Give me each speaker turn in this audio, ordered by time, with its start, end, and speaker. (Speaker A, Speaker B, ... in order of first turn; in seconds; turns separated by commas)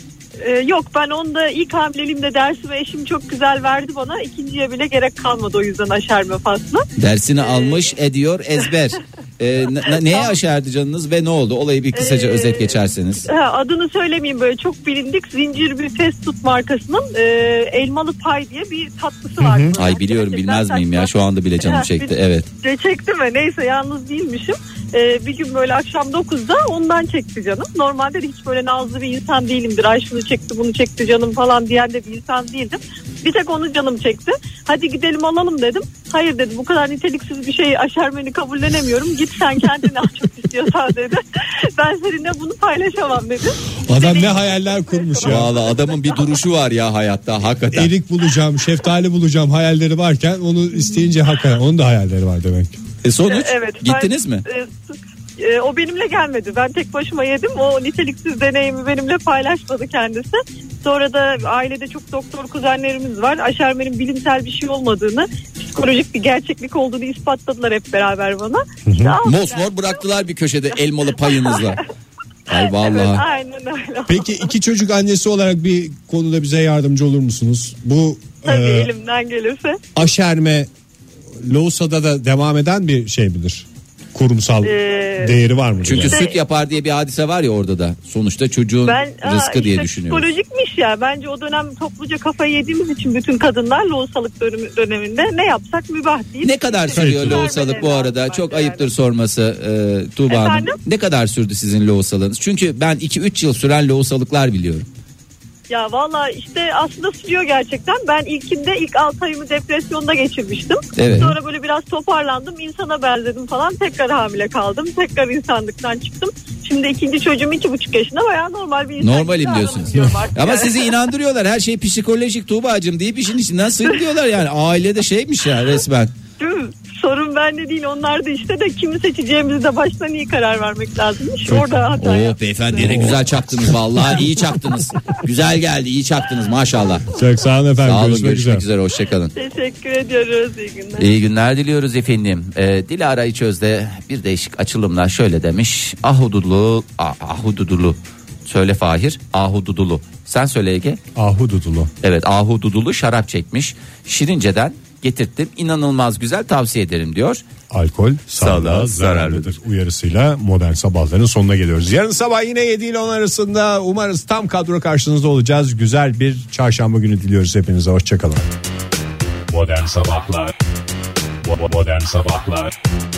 Speaker A: 0.4-6.8, Speaker B: 7.0-13.2, Speaker A: 7.4-7.9, Speaker A: 9.8-10.3, Speaker A: 11.9-46.3, Speaker C: 19.4-19.8, Speaker B: 19.8-22.5, Speaker C: 43.9-45.5, Speaker B: 45.2-47.9, Speaker C: 47.7-52.8, Speaker B: 53.0-54.4, Speaker A: 53.3-70.0, Speaker C: 68.8-69.2, Speaker B: 69.2-71.8, Speaker A: 71.2-71.8, Speaker B: 72.5-73.2, Speaker A: 72.5-74.5, Speaker C: 74.1-78.9, Speaker A: 78.4-79.8, Speaker C: 80.0-80.7, Speaker C: 81.4-86.2, Speaker A: 84.6-85.4, Speaker B: 85.8-90.3, Speaker A: 86.1-86.4, Speaker A: 88.8-98.9, Speaker B: 96.4-104.9, Speaker C: 96.9-97.4, Speaker A: 100.3-100.7, Speaker A: 105.7-120.9, Speaker B: 111.0-111.3, Speaker B: 119.0-126.1, Speaker A: 126.4-133.2, Speaker C: 131.4-131.8, Speaker B: 132.0-137.1, Speaker C: 132.8-134.2, Speaker C: 137.1-138.6, Speaker B: 137.8-139.3, Speaker A: 139.3-141.1, Speaker B: 141.0-151.0, Speaker C: 151.1-151.9, Speaker B: 152.0-157.4, Speaker C: 157.7-168.5, Speaker B: 158.4-159.5, Speaker C: 169.5-170.5, Speaker C: 171.4-172.7